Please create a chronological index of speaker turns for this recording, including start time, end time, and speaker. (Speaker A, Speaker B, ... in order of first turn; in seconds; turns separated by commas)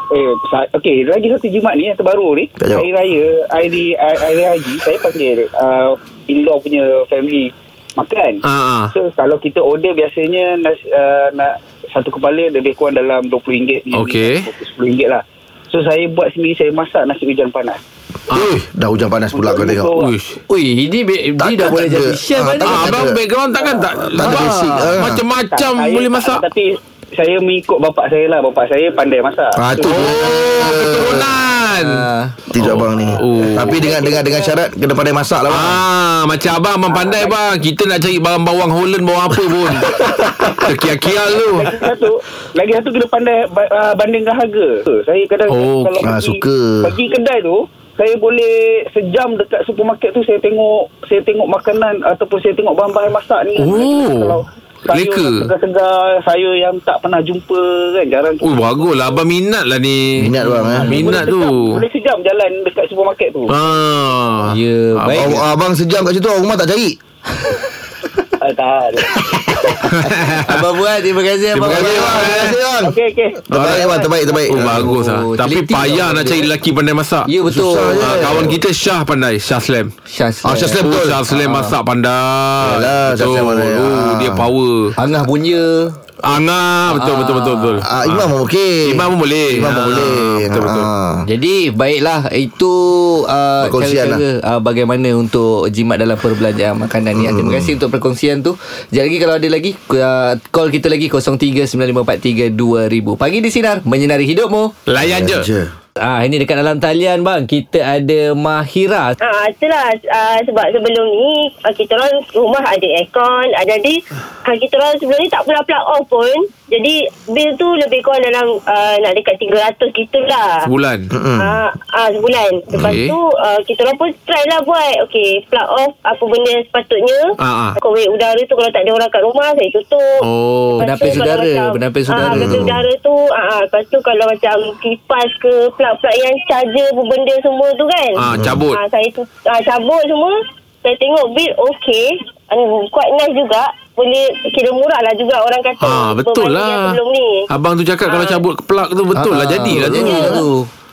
Speaker A: 0.1-8.4, Speaker B: 2.6-2.9, Speaker C: 8.4-8.9, Speaker A: 8.9-17.8, Speaker C: 13.9-14.5, Speaker B: 18.3-19.9, Speaker A: 19.3-20.1, Speaker C: 20.0-20.4, Speaker D: 20.5-23.0, Speaker B: 21.4-23.2, Speaker C: 22.6-26.4, Speaker B: 24.0-25.2, Speaker D: 24.2-25.0, Speaker A: 25.5-30.4, Speaker B: 29.5-31.3, Speaker C: 29.9-32.0, Speaker D: 31.8-32.4, Speaker B: 32.5-35.8, Speaker C: 32.6-33.8, Speaker A: 33.8-34.6, Speaker C: 35.5-41.7, Speaker A: 36.9-37.4, Speaker A: 40.0-40.2, Speaker A: 41.5-58.7, Speaker C: 45.5-46.0, Speaker B: 46.0-46.9, Speaker C: 53.5-54.4, Speaker C: 54.9-55.5, Speaker C: 58.4-60.3, Speaker B: 60.2-61.0, Speaker D: 60.4-61.2, Speaker A: 60.8-63.5, Speaker C: 60.8-61.7, Speaker C: 63.5-65.4, Speaker D: 64.5-65.4, Speaker B: 65.1-67.0, Speaker A: 68.4-69.6, Speaker C: 69.8-70.5, Speaker D: 70.4-72.2, Speaker C: 71.5-72.6, Speaker B: 71.6-73.0, Speaker A: 72.8-73.4, Speaker B: 73.5-74.9, Speaker C: 73.5-73.9, Speaker C: 74.5-77.3, Speaker D: 74.8-76.5, Speaker D: 77.2-78.2, Speaker B: 77.5-78.6, Speaker C: 78.0-79.9, Speaker D: 80.1-81.7, Speaker B: 80.4-81.3, Speaker C: 80.8-84.9, Speaker B: 82.6-84.5, Speaker D: 84.9-85.9, Speaker C: 86.2-88.3, Speaker D: 86.9-87.8, Speaker B: 87.8-91.2, Speaker C: 88.8-90.9, Speaker D: 91.2-104.7, Speaker B: 93.6-94.2, Speaker B: 97.1-97.7, Speaker C: 104.9-105.5, Speaker B: 105.0-105.7, Speaker D: 106.0-109.1, Speaker E: 109.2-120.7, Speaker C: 120.6-121.1, Speaker B: 121.1-121.5, Speaker E: 121.4-147.5, Speaker C: 122.8-123.2, Speaker C: 127.4-127.8, Speaker C: 130.2-131.2, Speaker D: 130.8-132.6, Speaker B: 132.2-132.8, Speaker C: 138.2-138.8, Speaker B: 138.3-138.6, Speaker C: 145.8-150.4, Speaker E: 148.1-148.4, Speaker D: 149.1-150.7, Speaker B: 149.7-150.2, Speaker E: 150.0-150.4